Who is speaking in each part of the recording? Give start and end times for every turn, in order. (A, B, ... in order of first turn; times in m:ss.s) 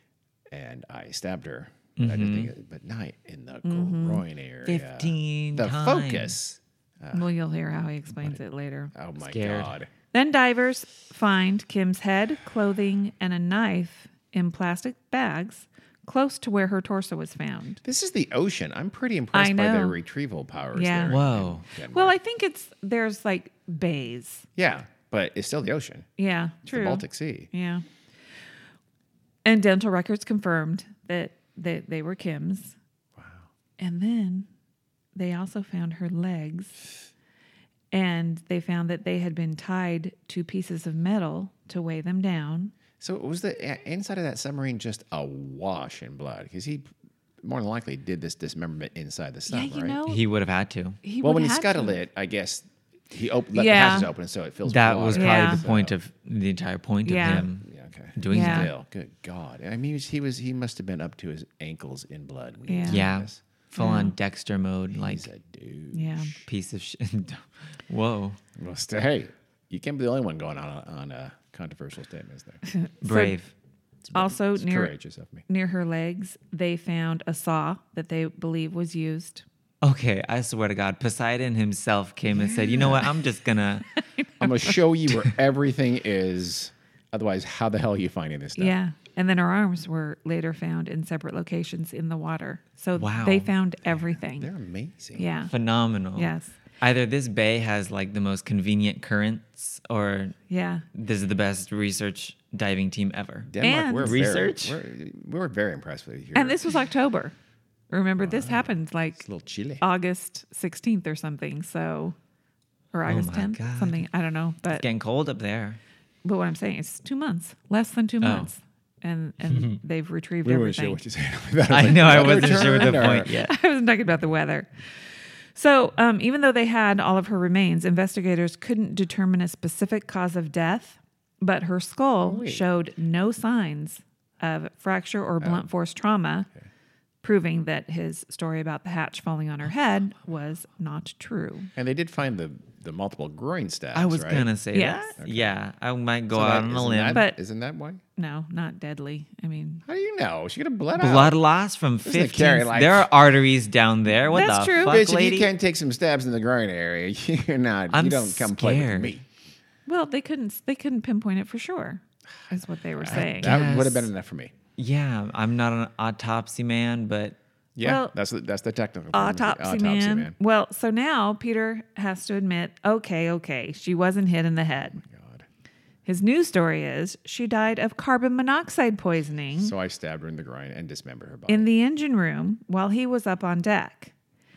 0:00.5-0:07.3 A
0:02.0-0:02.5 B
0:03.6-0:04.2 C
0:04.6-0:06.3 B
0:07.1-0:08.9 C
0:08.9-0:09.9 A
0:09.2-0:09.7 B
0:10.1-0:17.8 C
0:17.8-0:22.2 A
0:19.3-0:20.0 C
0:20.7-0:21.2 C
0:21.1-0:21.6 B
0:21.9-0:24.4 C
0:24.6-0:26.1 A
0:26.2-0:27.8 C
0:26.6-0:27.5 A
0:29.4-0:32.8 C
0:33.2-0:33.5 A
0:33.8-0:34.5 C
0:35.1-0:36.8 C
0:37.9-0:42.7 C
0:43.0-0:46.8 A
0:47.4-0:50.0 A
0:49.5-0:50.2 C
0:50.0-0:51.0 B
0:51.0-0:52.0 C
0:51.2-0:56.0 A
0:53.5-0:54.1 C
0:54.6-0:58.7 B
0:55.1-0:55.6 C
0:57.0-0:57.5 C
0:57.6-1:03.4 A
0:58.3-0:58.7 C
1:02.7-1:03.0 C
1:02.9-1:05.3 B
1:03.8-1:04.1 C
1:04.9-1:06.5 A
1:05.9-1:06.3 C
1:06.4-1:08.4 B
1:08.6-1:12.6 A
1:12.6-1:13.4 C
1:13.0-1:13.5 B
1:14.0-1:15.4 A
1:14.1-1:14.9 C
1:15.5-1:19.4 C
1:19.8-1:23.9 B
1:22.4-1:23.1 C
1:22.8-1:23.1 A
1:23.9-1:24.3 C
1:24.4-1:28.8 A
1:28.6-1:34.5 C
1:33.0-1:33.5 B
1:34.4-1:35.3 A
1:35.2-1:35.5 C
1:35.5-1:40.4 B
1:36.2-1:36.5 C
1:40.5-1:40.8 C
1:40.9-1:44.8 B
1:43.5-1:46.6 A
1:43.6-1:44.2 C
1:46.3-1:47.3 C
1:47.9-1:49.2 C
1:48.2-1:49.8 A
1:49.8-1:52.2 C
1:52.9-1:54.8 C
1:53.1-1:54.0 B
1:54.7-1:55.8 B
1:56.2-2:01.0 C
1:58.2-1:58.5 B
1:59.5-1:59.8 B
2:00.4-2:03.3 A
2:01.7-2:03.5 B
2:02.0-2:04.7 C
2:05.5-2:16.5 C
2:12.2-2:12.6 A
2:17.2-2:21.7 C
2:21.8-2:24.5 A
2:23.9-2:27.2 B
2:24.7-2:25.2 C
2:25.2-2:25.6 A
2:26.3-2:28.0 A
2:27.1-2:27.4 C
2:28.2-2:29.8 C
2:29.8-2:31.4 A
2:31.0-2:35.5 B
2:32.0-2:33.1 A
2:34.3-2:35.0 C
2:34.4-2:39.2 A
2:37.9-2:39.1 B
2:39.8-2:43.6 C
2:42.5-2:44.5 A
2:43.1-2:44.1 B
2:44.8-2:47.4 B
2:47.8-2:50.4 A
2:47.8-2:48.1 C
2:49.1-2:55.0 C
2:55.0-2:55.4 A
2:56.0-2:59.7 C
2:59.6-3:01.7 A
3:01.5-3:04.1 C